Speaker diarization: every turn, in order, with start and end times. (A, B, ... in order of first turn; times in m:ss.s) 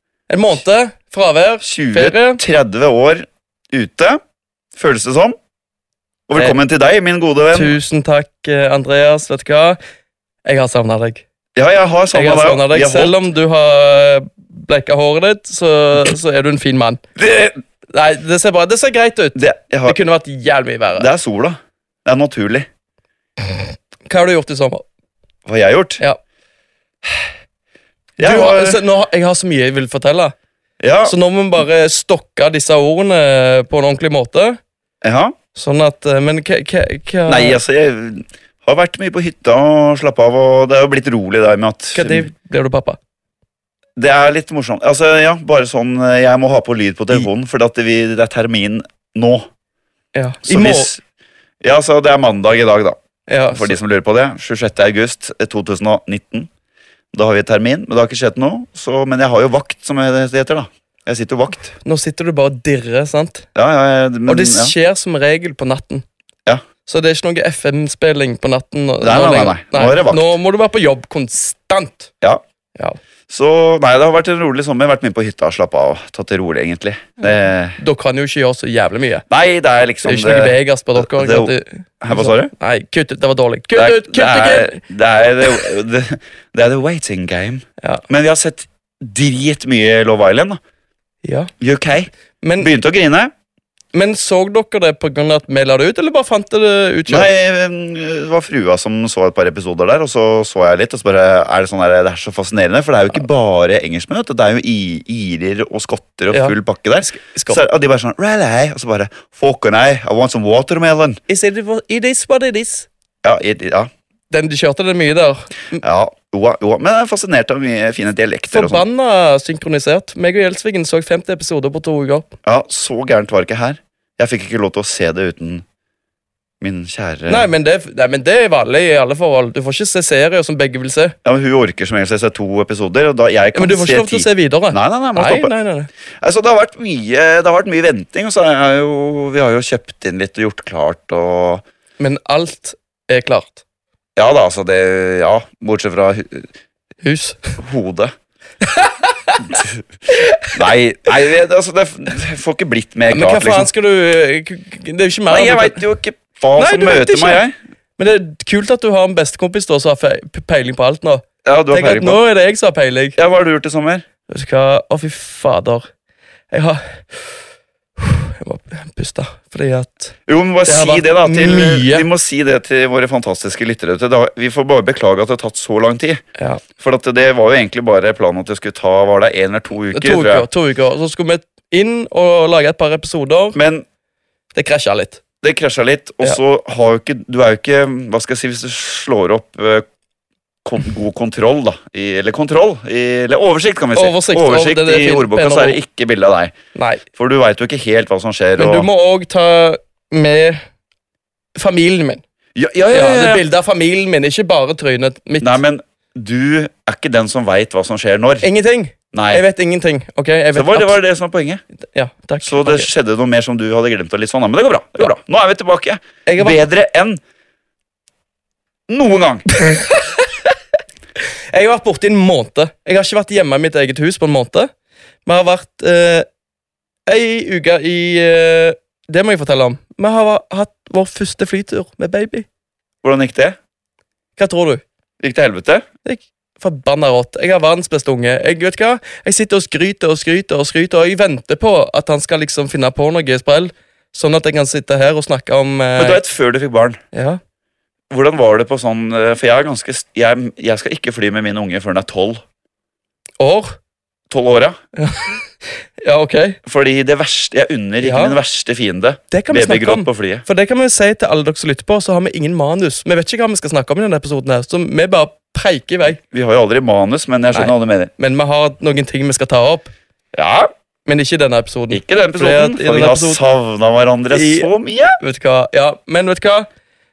0:00.3-0:02.4 A
0:01.6-0:04.2 B
0:04.8-0:05.4 B
0:06.3-0:07.8 B
0:07.5-0:09.8 A
0:10.4-0:11.2 A
0:11.6-0:13.2 B
0:12.1-0:17.0 A
0:17.2-0:17.6 B
0:17.9-0:21.1 A
0:19.3-0:20.0 B
0:21.0-0:22.7 B
0:23.5-0:24.8 A
0:25.5-0:26.0 B
0:28.2-0:28.8 B
0:28.2-0:30.3 A
0:30.8-0:31.2 B
0:31.0-0:34.6 A
0:35.0-0:35.4 B
0:35.5-0:37.6 A
0:37.3-0:42.3 B
0:41.9-0:43.0 A
0:44.0-0:49.5 B
0:50.2-0:50.9 A
0:50.4-0:51.0 B
0:51.6-0:53.0 B
0:53.3-0:53.8 A
0:53.5-0:56.5 B
0:57.1-1:01.8 B
1:01.8-1:03.5 A
1:03.6-1:04.8 B
1:04.3-1:06.0 A
1:06.9-1:12.1 A
1:09.0-1:10.4 B
1:13.3-1:17.8 B
1:17.8-1:19.3 A
1:19.3-1:22.5 B
1:20.0-1:24.8 A
1:23.7-1:30.6 B
1:31.2-1:31.5 A
1:31.6-1:33.3 B
1:32.4-1:32.7 A
1:33.9-1:37.3 A
1:37.1-1:51.2 B
1:46.3-1:47.6 A
1:51.3-1:52.9 A
1:53.2-1:53.9 B
1:54.3-1:55.8 A
1:55.8-1:58.8 B
1:58.5-2:02.3 A
2:02.4-2:05.6 B
2:06.6-2:07.5 B
2:07.3-2:11.2 A
2:11.2-2:15.5 B
2:13.5-2:15.9 A
2:16.2-2:21.6 B
2:22.0-2:23.6 A
2:24.2-2:26.5 B
2:27.0-2:27.5 A
2:27.6-2:28.1 B
2:28.6-2:29.5 A
2:29.5-2:29.8 B
2:30.1-2:30.6 A
2:30.4-2:33.7 B
2:33.1-2:35.8 A
2:35.3-2:37.5 B
2:36.6-2:37.4 A
2:38.0-2:43.2 A
2:41.4-2:42.2 B
2:43.2-2:44.0 B
2:44.3-2:45.9 A
2:46.5-2:47.4 A
2:48.0-2:50.2 A
2:50.3-2:56.2 B
2:50.7-2:52.1 A
2:56.4-2:56.6 A
2:56.8-3:00.5 B
2:59.9-3:03.6 A
3:03.6-3:03.8 B
3:04.5-3:05.2 A
3:05.4-3:09.8 B
3:10.6-3:16.6 B
3:14.0-3:15.8 A
3:16.8-3:17.0 A
3:17.2-3:18.9 B
3:18.6-3:20.6 A
3:21.6-3:22.2 A
3:22.6-3:23.4 B
3:22.9-3:25.6 A
3:25.4-3:28.5 B
3:28.4-3:31.0 A
3:29.1-3:29.4 B
3:30.5-3:31.6 B
3:31.9-3:32.9 A
3:32.4-3:37.2 B
3:36.3-3:36.6 A
3:38.9-3:39.4 B
3:39.5-3:40.3 A
3:41.5-3:44.7 A
3:45.3-3:46.3 A
3:47.1-3:52.5 A
3:53.0-3:53.6 B
3:54.4-3:54.8 A
3:55.2-3:55.8 B
3:56.0-4:06.2 A
4:06.0-4:07.0 B
4:07.1-4:07.4 A
4:08.1-4:12.4 B
4:13.4-4:13.8 A
4:14.3-4:14.8 B
4:15.0-4:15.4 A
4:16.0-4:16.6 A
4:16.6-4:20.4 B
4:18.0-4:18.4 A
4:19.3-4:26.2 A
4:26.2-4:28.1 B
4:27.5-4:29.9 A
4:30.3-4:30.7 B
4:31.1-4:33.4 A
4:31.9-4:35.2 B
4:34.3-4:36.7 A